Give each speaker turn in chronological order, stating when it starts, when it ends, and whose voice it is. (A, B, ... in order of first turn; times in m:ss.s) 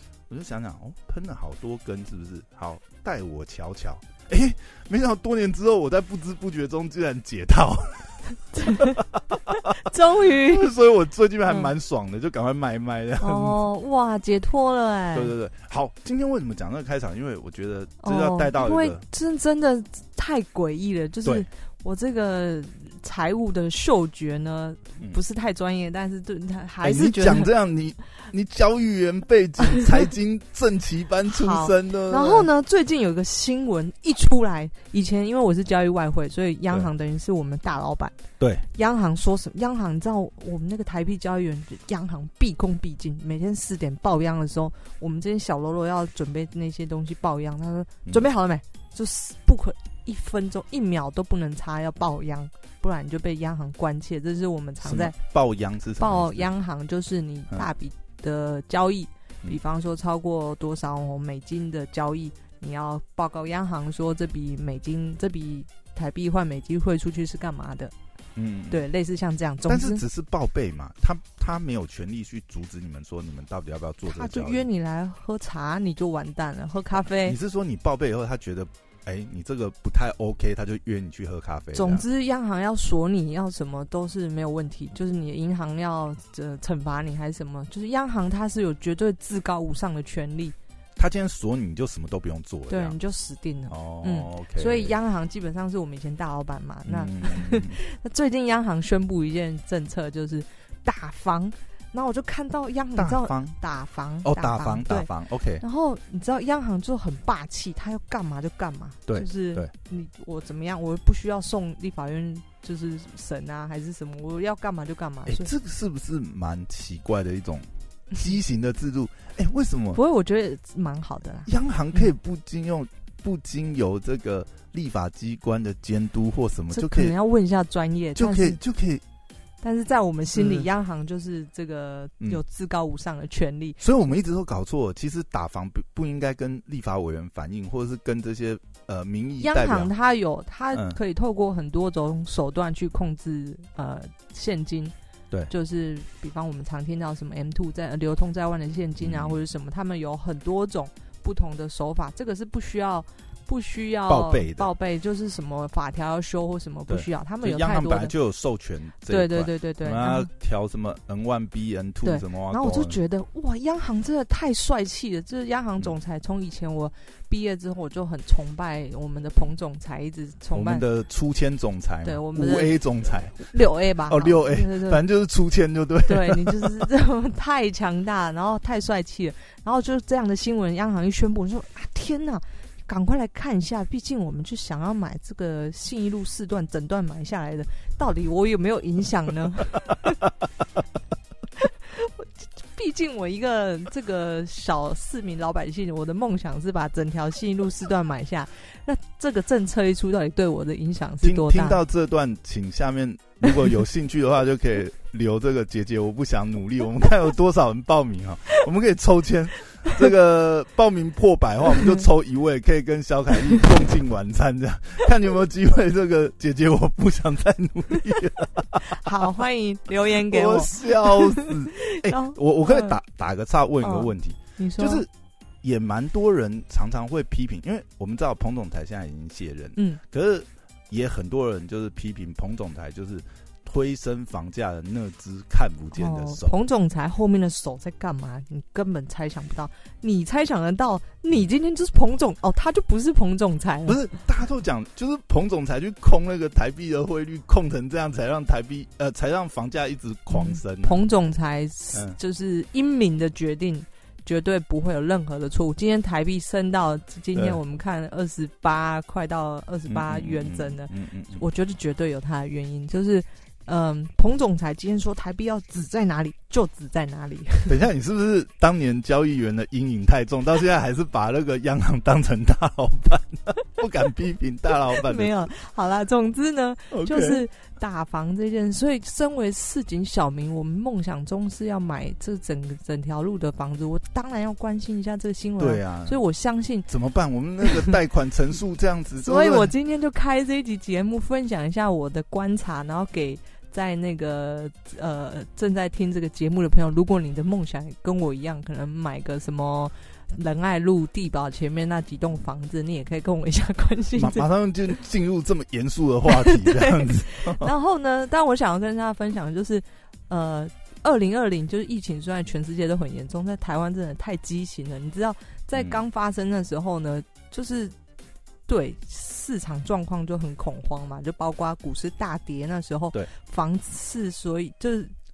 0:00.3-0:13.6 A
0:08.6-0:09.0 B
0:09.7-0:10.7 B
0:13.2-0:15.3 B
0:15.1-0:19.1 A
0:18.0-0:27.5 B
0:26.8-0:32.5 A
0:31.3-0:38.1 B
0:38.4-0:38.7 A
0:38.7-0:55.1 B
0:54.8-0:56.5 A
0:56.0-1:07.9 B
1:08.4-1:08.8 A
1:08.7-1:10.0 B
1:09.7-1:14.7 A
1:14.0-1:17.4 B
1:17.2-1:22.0 A
1:21.7-1:30.6 B
1:31.0-1:33.0 A
1:32.7-1:45.1 B
1:33.7-1:35.0 A
1:36.9-1:37.8 A
1:43.0-1:43.6 A
1:44.2-1:45.6 A
1:45.6-1:55.5 B
1:49.1-1:49.7 A
1:55.3-2:00.0 A
1:59.9-2:02.0 B
2:01.5-2:07.1 A
2:06.7-2:08.6 B
2:08.2-2:09.0 A
2:09.6-2:13.8 B
2:10.3-2:10.7 A
2:13.8-2:19.9 A
2:19.4-2:24.9 B
2:20.7-2:21.0 A
2:25.5-2:38.1 B
2:29.0-2:29.4 A
2:34.1-2:34.7 A
2:36.9-2:43.0 A
2:39.1-2:40.3 B
2:42.0-2:50.8 B
2:50.5-2:56.8 A
2:52.0-2:52.8 B
2:53.4-2:55.0 B
2:56.1-3:10.3 B
3:11.6-3:21.8 B
3:21.2-3:39.3 A
3:38.8-3:43.0 B
3:40.2-3:45.1 A
3:43.8-3:45.0 B
3:45.6-3:56.6 A
3:49.8-3:50.0 B
3:56.0-4:04.0 B
4:03.9-4:11.1 A
4:10.3-4:27.8 B
4:19.9-4:21.4 A
4:27.7-4:35.5 A
4:34.9-4:46.9 B
4:36.9-4:37.4 A
4:45.6-4:46.2 A
4:46.9-4:49.7 A
4:49.2-5:04.5 B
5:04.2-5:07.7 A
5:06.3-5:17.9 B
5:18.7-5:25.1 B